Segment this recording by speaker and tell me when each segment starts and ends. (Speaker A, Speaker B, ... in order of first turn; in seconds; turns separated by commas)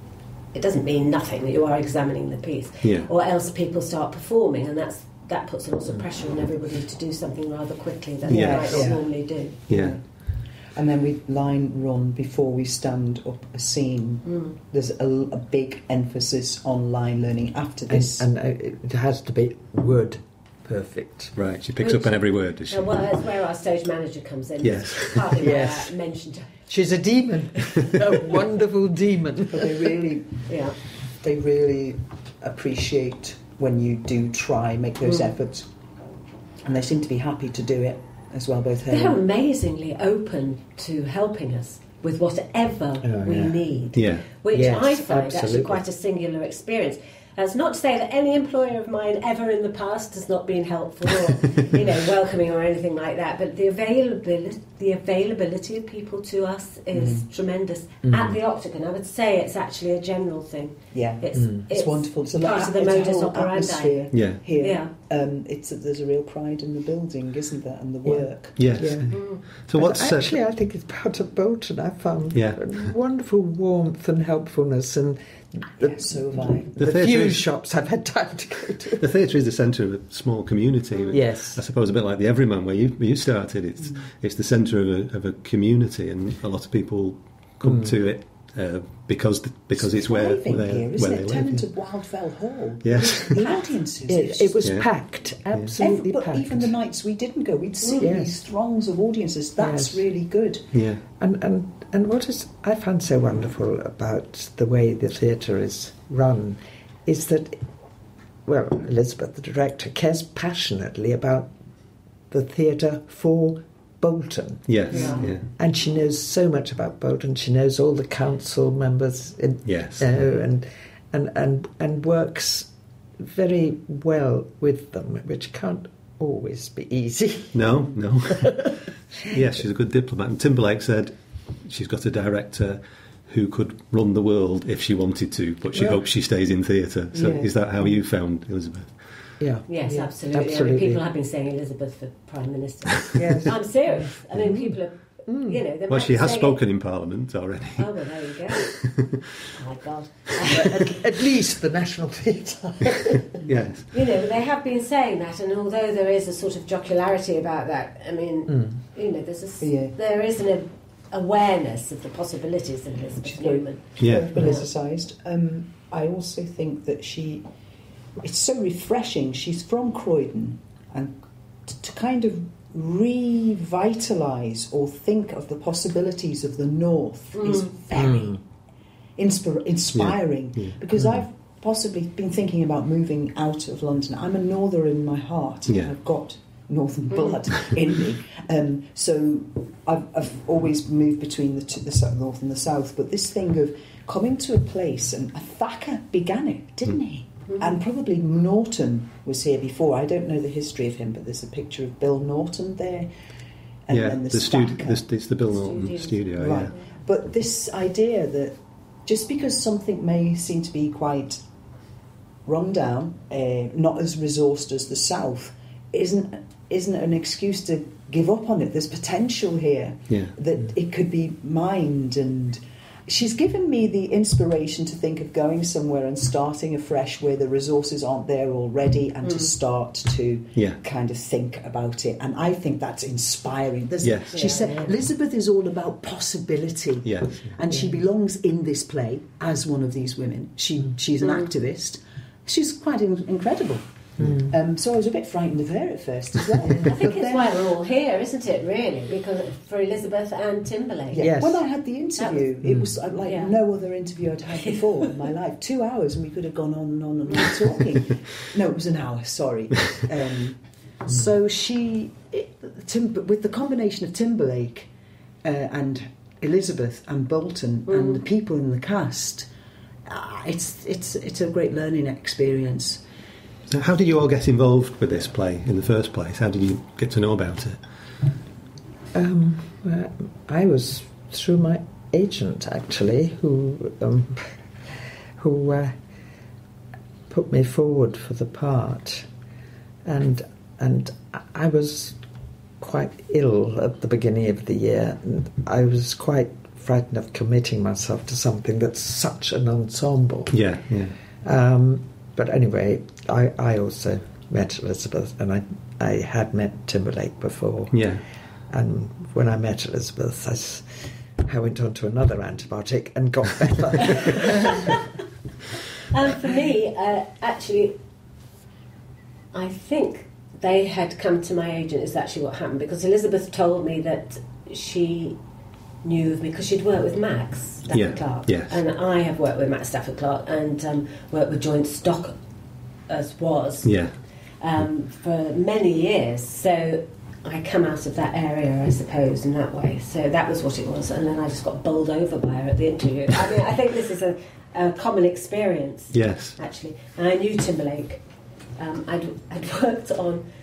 Speaker A: 0.5-9.7, Speaker B: 2.8-3.1, Speaker B: 8.3-8.9, Speaker C: 8.3-9.1, Speaker C: 9.7-10.0, Speaker B: 9.7-10.0, Speaker C: 10.7-18.3, Speaker A: 14.3-14.6, Speaker D: 17.9-21.4, Speaker B: 21.4-22.8, Speaker A: 21.8-26.7, Speaker B: 24.6-25.4, Speaker D: 25.4-26.0, Speaker D: 26.7-30.2, Speaker C: 29.5-30.5, Speaker A: 30.5-30.8, Speaker C: 31.2-35.7, Speaker A: 35.1-35.3, Speaker C: 36.6-39.2, Speaker A: 38.9-64.9, Speaker D: 43.0-43.8, Speaker B: 43.9-44.3, Speaker D: 44.5-45.8, Speaker C: 56.9-57.3, Speaker D: 58.0-58.4, Speaker C: 60.9-69.0, Speaker B: 64.1-64.4, Speaker D: 68.0-69.2, Speaker B: 68.6-70.4, Speaker A: 69.1-69.6, Speaker D: 69.7-79.1, Speaker B: 72.3-72.8, Speaker C: 75.8-76.8, Speaker B: 76.8-77.5, Speaker B: 79.0-91.7, Speaker D: 81.1-81.7, Speaker D: 87.6-87.9, Speaker C: 89.8-94.6, Speaker B: 92.8-93.4, Speaker D: 94.1-96.7, Speaker B: 94.6-94.9, Speaker C: 95.8-100.7, Speaker D: 98.0-98.4, Speaker D: 99.6-100.1, Speaker B: 100.7-101.0, Speaker D: 101.2-107.6, Speaker D: 108.5-111.5, Speaker D: 112.3-129.4, Speaker B: 114.7-115.5, Speaker A: 114.9-115.3, Speaker C: 114.9-115.3, Speaker B: 119.7-120.1, Speaker B: 127.5-128.7, Speaker B: 129.3-138.9, Speaker D: 135.7-136.0, Speaker A: 137.2-137.5, Speaker D: 139.4-141.0, Speaker A: 139.7-146.6, Speaker D: 143.1-144.7, Speaker D: 145.3-145.6, Speaker B: 145.9-147.9, Speaker A: 147.8-148.7, Speaker B: 148.5-149.2, Speaker A: 149.6-151.0, Speaker D: 150.5-153.4, Speaker B: 153.4-153.9, Speaker A: 153.9-164.7, Speaker D: 158.5-158.8, Speaker C: 159.6-160.0, Speaker C: 163.2-167.4, Speaker B: 164.0-164.3, Speaker C: 168.2-178.4, Speaker A: 177.3-177.8, Speaker D: 177.9-178.4, Speaker C: 179.2-203.1, Speaker B: 179.9-180.8, Speaker B: 185.7-185.9, Speaker C: 203.9-205.0, Speaker B: 203.9-206.7, Speaker A: 205.5-206.8, Speaker C: 206.3-211.4, Speaker C: 212.5-247.6, Speaker B: 234.0-234.4, Speaker A: 234.3-234.9, Speaker B: 237.0-237.6, Speaker A: 241.2-241.5, Speaker D: 244.2-244.5, Speaker A: 246.7-251.2, Speaker C: 251.1-264.9, Speaker D: 251.2-251.6, Speaker A: 252.2-252.5, Speaker D: 252.7-252.9, Speaker A: 253.2-253.6, Speaker A: 254.6-255.1, Speaker C: 265.4-269.5, Speaker A: 267.9-268.2, Speaker C: 270.1-273.0, Speaker B: 273.7-277.8, Speaker D: 279.1-286.0, Speaker D: 287.3-289.3, Speaker D: 290.1-292.2, Speaker D: 292.8-300.6, Speaker B: 300.5-301.2, Speaker D: 301.4-308.1, Speaker B: 307.9-308.2, Speaker D: 308.7-314.8, Speaker A: 316.1-318.0, Speaker A: 319.5-325.4, Speaker A: 326.0-332.4, Speaker B: 327.9-328.8, Speaker A: 333.1-334.0, Speaker B: 333.8-334.1, Speaker A: 334.6-348.2, Speaker B: 346.1-346.6, Speaker A: 348.8-350.4